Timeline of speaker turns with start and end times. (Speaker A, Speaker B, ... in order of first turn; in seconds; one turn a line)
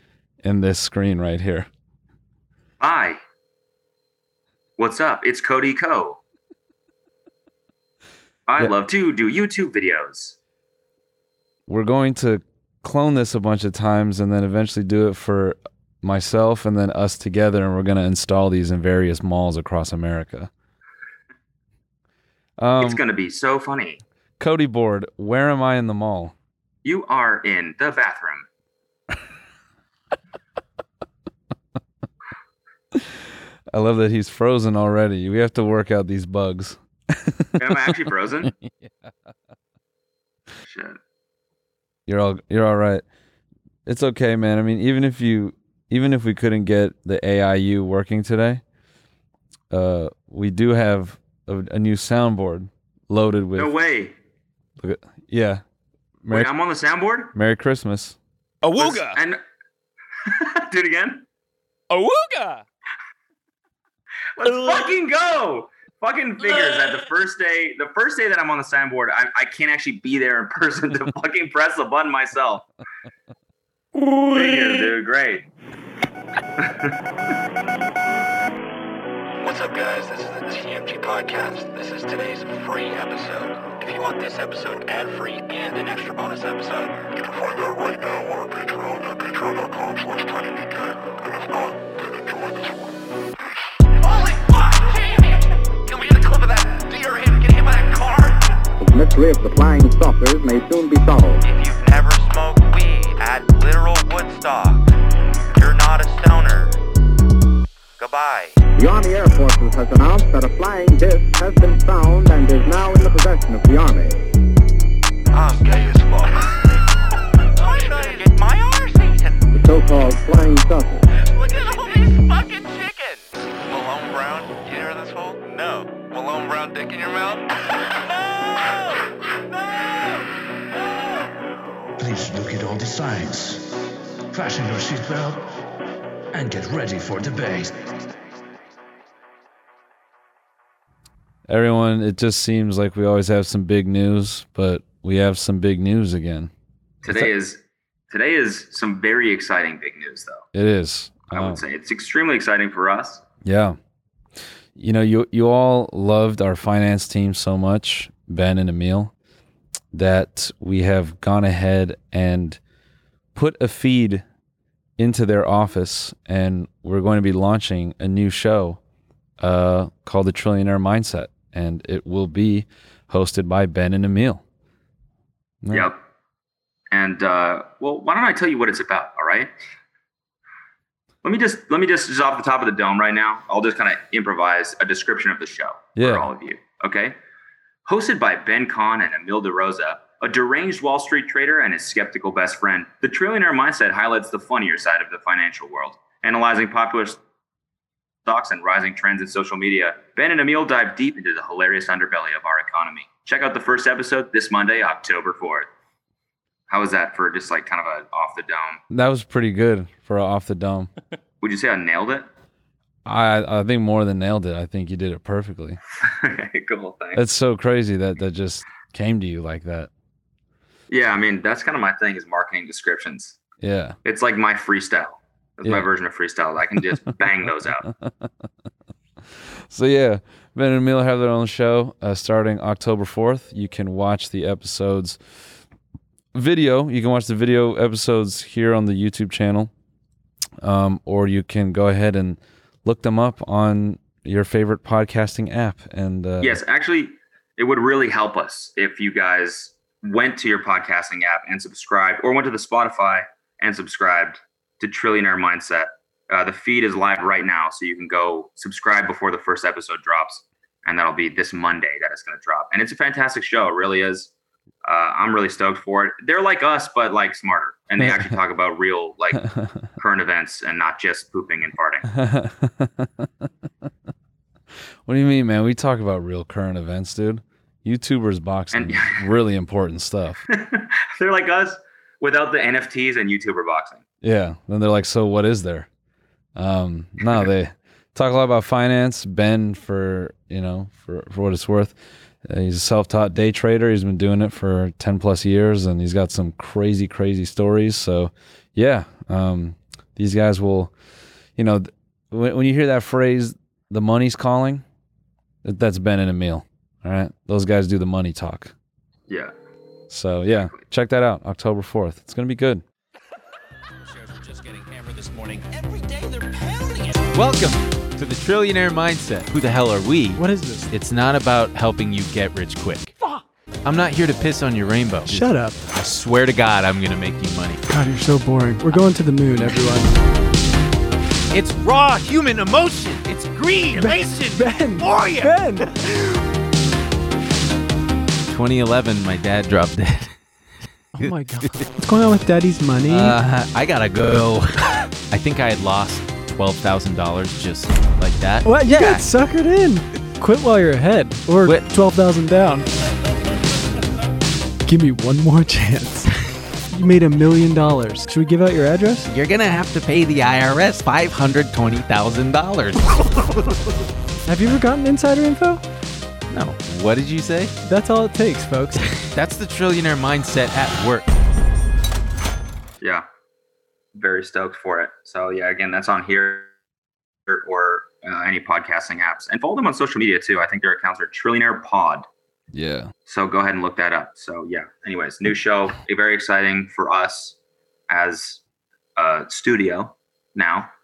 Speaker A: 0.4-1.7
Speaker B: 2.8-3.2
Speaker B: 4.8-6.2
Speaker B: 8.5-10.4
Speaker A: 11.7-20.5
Speaker A: 22.6-23.0
Speaker B: 22.8-24.0
Speaker A: 24.4-26.3
Speaker B: 26.8-28.5
Speaker A: 33.7-37.9
Speaker B: 37.6-38.5
Speaker A: 38.4-39.1
Speaker B: 40.6-41.0
Speaker A: 42.1-43.0
Speaker A: 43.9-48.6
Speaker A: 49.7-53.7
Speaker B: 53.5-54.1
Speaker A: 54.8-55.6
Speaker A: 56.2-56.5
Speaker B: 56.3-57.3
Speaker A: 57.3-58.2
Speaker C: 58.6-59.2
Speaker B: 58.8-59.4
Speaker B: 60.2-61.2
Speaker C: 61.9-62.6
Speaker B: 64.4-72.6
Speaker C: 64.4-64.8
Speaker C: 66.4-66.9
Speaker C: 74.0-74.9
Speaker B: 74.3-75.5
Speaker B: 76.6-77.0
Speaker D: 79.4-90.6
Speaker D: 94.2-95.2
Speaker D: 95.9-97.9
Speaker E: 98.0-98.2
Speaker F: 98.8-101.4
Speaker E: 101.4-104.8
Speaker E: 105.5-106.8
Speaker E: 108.0-108.6
Speaker F: 108.8-114.2
Speaker E: 115.3-115.6
Speaker D: 115.6-116.3
Speaker E: 117.6-119.4
Speaker F: 119.5-121.0
Speaker E: 121.5-127.5
Speaker G: 132.0-135.6
Speaker G: 136.3-137.9
Speaker A: 141.5-146.5
Speaker B: 147.0-150.4
Speaker A: 150.5-151.6
Speaker B: 151.3-153.2
Speaker A: 153.4-153.8
Speaker A: 154.8-159.1
Speaker A: 159.9-162.6
Speaker A: 163.3-164.2
Speaker A: 165.0-168.8
Speaker A: 169.4-174.4
Speaker A: 175.6-175.9
Speaker B: 175.7-176.0
Speaker B: 176.9-179.5
Speaker B: 181.2-187.2
Speaker A: 186.0-186.3
Speaker B: 187.8-197.2
Speaker B: 198.2-205.7
Speaker B: 206.7-208.8
Speaker A: 208.9-210.9
Speaker B: 211.4-212.3
Speaker A: 213.0-215.8
Speaker B: 216.0-217.2
Speaker A: 217.1-219.9
Speaker B: 220.9-223.4
Speaker A: 223.6-223.9
Speaker B: 224.0-227.8
Speaker A: 229.7-235.2
Speaker A: 236.3-239.7
Speaker A: 240.6-246.6
Speaker B: 246.4-264.3
Speaker B: 264.8-269.4
Speaker A: 268.0-268.3
Speaker B: 270.0-272.1
Speaker A: 272.1-273.1
Speaker A: 275.1-280.4
Speaker B: 278.7-279.2
Speaker B: 280.5-284.0
Speaker A: 284.2-285.9
Speaker A: 286.6-291.9
Speaker A: 292.4-300.9
Speaker A: 301.6-304.8
Speaker A: 305.6-308.7
Speaker B: 309.3-309.5
Speaker A: 310.1-312.8
Speaker C: 314.0-317.3
Speaker H: 317.3-323.1
Speaker I: 320.4-320.9
Speaker H: 323.8-327.8
Speaker I: 325.3-325.8
Speaker I: 327.9-330.1
Speaker H: 331.5-335.6
Speaker I: 333.9-336.1
Speaker H: 338.5-340.4
Speaker I: 341.1-343.4
Speaker H: 341.2-341.9
Speaker H: 343.1-349.3
Speaker I: 348.6-352.8
Speaker H: 351.6-351.9
Speaker I: 354.9-356.3
Speaker I: 356.9-359.3
Speaker H: 359.2-363.2
Speaker I: 364.4-365.8
Speaker H: 366.5-367.8
Speaker I: 367.8-369.1
Speaker H: 369.2-371.3
Speaker B: 373.0-373.2
Speaker B: 374.1-376.7
Speaker B: 377.5-382.2
Speaker A: 382.7-383.1
Speaker B: 383.3-387.6
Speaker B: 388.1-388.6
Speaker B: 389.1-390.9